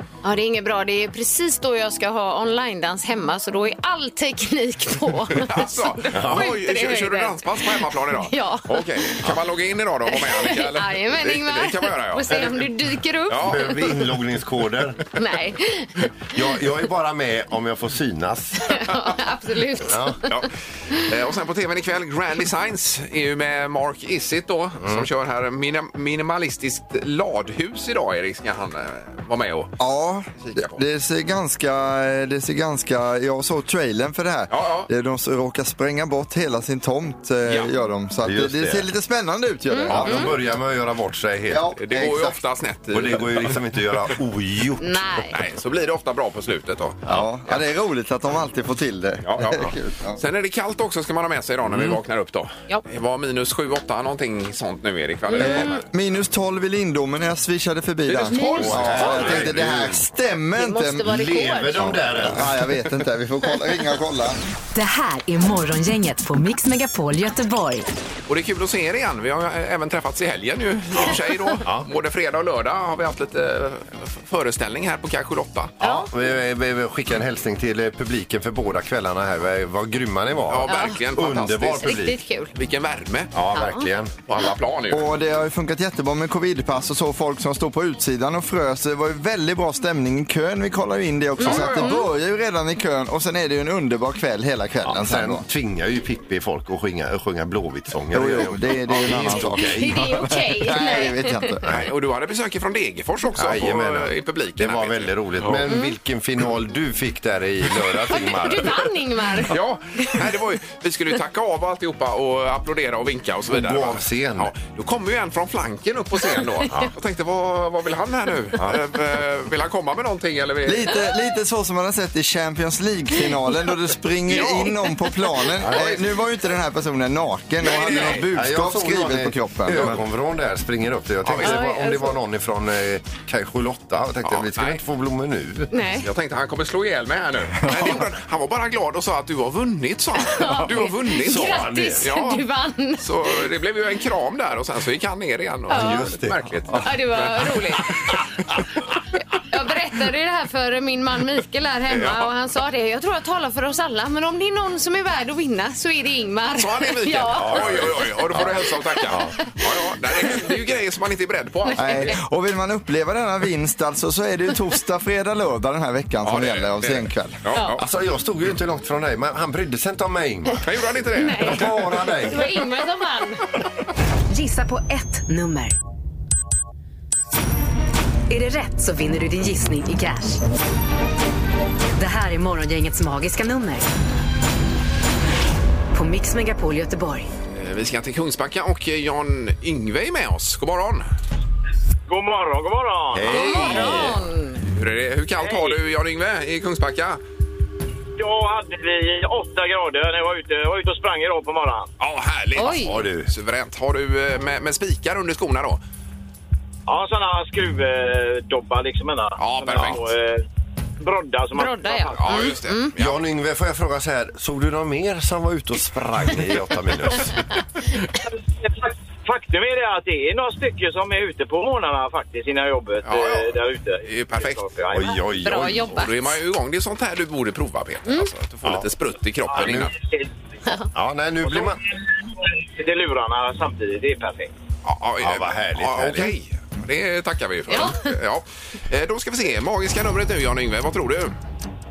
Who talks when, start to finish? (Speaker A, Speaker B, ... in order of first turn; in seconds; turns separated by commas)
Speaker A: 0.2-9.2, Speaker B: 5.3-12.5, Speaker C: 6.1-6.5, Speaker A: 10.1-14.0, Speaker C: 12.3-12.6, Speaker B: 13.3-13.8, Speaker C: 13.4-15.1, Speaker A: 15.1-15.9, Speaker C: 16.3-18.6, Speaker A: 18.6-20.4, Speaker C: 19.8-20.2, Speaker B: 20.2-29.7, Speaker D: 29.8-40.3, Speaker B: 30.4-30.8, Speaker B: 34.5-34.9, Speaker B: 37.5-37.7, Speaker C: 38.2-38.9, Speaker A: 39.7-40.3, Speaker C: 39.9-41.7, Speaker D: 41.5-42.4, Speaker B: 41.8-43.6, Speaker C: 42.9-45.0, Speaker A: 44.8-45.4, Speaker B: 45.3-47.6, Speaker D: 47.0-50.2, Speaker B: 49.2-55.8, Speaker C: 51.7-52.0, Speaker A: 55.3-55.6, Speaker D: 55.4-61.1, Speaker B: 58.1-59.6, Speaker A: 58.3-58.7, Speaker C: 58.6-60.0, Speaker A: 60.6-62.0, Speaker C: 61.0-62.6, Speaker D: 61.8-64.4, Speaker E: 64.7-67.9, Speaker B: 68.3-75.8, Speaker C: 70.9-71.9, Speaker A: 75.8-76.1, Speaker C: 75.8-82.2, Speaker B: 80.5-82.0, Speaker A: 80.7-81.0, Speaker A: 81.8-82.5, Speaker B: 82.5-83.3, Speaker C: 83.3-84.2, Speaker A: 83.5-83.9, Speaker B: 84.2-85.1, Speaker D: 84.9-95.5, Speaker B: 91.4-91.9, Speaker A: 91.4-92.1, Speaker C: 94.8-100.0, Speaker D: 98.1-101.8, Speaker A: 99.7-101.6, Speaker C: 101.6-101.9, Speaker B: 101.7-105.7, Speaker C: 103.3-108.9, Speaker A: 105.7-105.9, Speaker A: 108.1-110.2, Speaker B: 109.5-121.0, Speaker C: 113.5-114.5, Speaker C: 118.5-118.8, Speaker D: 120.6-130.0, Speaker B: 124.3-124.7, Speaker B: 125.6-126.0, Speaker C: 125.6-126.0, Speaker B: 127.6-128.3, Speaker C: 128.3-135.8, Speaker B: 131.2-131.6, Speaker A: 131.4-132.2, Speaker B: 134.2-134.8, Speaker A: 135.7-136.1, Speaker B: 136.0-142.4, Speaker A: 140.2-143.4, Speaker C: 141.2-142.1, Speaker B: 143.0-148.2, Speaker A: 145.7-146.1, Speaker C: 145.7-146.4, Speaker A: 146.8-147.9, Speaker A: 149.3-157.9, Speaker B: 151.9-152.3, Speaker B: 156.6-162.1, Speaker C: 157.3-159.4, Speaker A: 158.9-160.4, Speaker A: 161.7-162.2, Speaker D: 161.8-167.4, Speaker B: 166.2-167.8, Speaker C: 167.8-170.7, Speaker B: 170.6-171.7, Speaker A: 171.1-173.5, Speaker C: 171.3-172.5, Speaker E: 174.3-175.8, Speaker E: 178.3-180.4, Speaker E: 182.0-183.9, Speaker E: 185.9-187.3, Speaker B: 187.5-191.1, Speaker F: 192.1-194.0, Speaker C: 193.1-194.2, Speaker A: 193.3-194.6, Speaker B: 194.7-197.2, Speaker F: 195.4-195.8, Speaker F: 198.2-201.9, Speaker B: 202.0-205.8, Speaker A: 202.6-203.0, Speaker C: 202.6-203.3, Speaker F: 206.9-210.4, Speaker B: 209.4-210.0, Speaker F: 211.0-212.5, Speaker A: 211.5-212.9, Speaker B: 212.1-213.2, Speaker C: 213.0-217.6, Speaker F: 218.6-225.2, Speaker B: 223.0-224.6, Speaker C: 224.9-226.0, Speaker A: 225.4-226.3, Speaker B: 225.9-229.9, Speaker C: 229.5-229.9, Speaker F: 229.6-230.3, Speaker C: 230.9-231.8, Speaker F: 231.5-231.8, Speaker F: 232.6-234.5, Speaker B: 234.8-241.3, Speaker C: 235.2-236.3, Speaker A: 237.7-238.1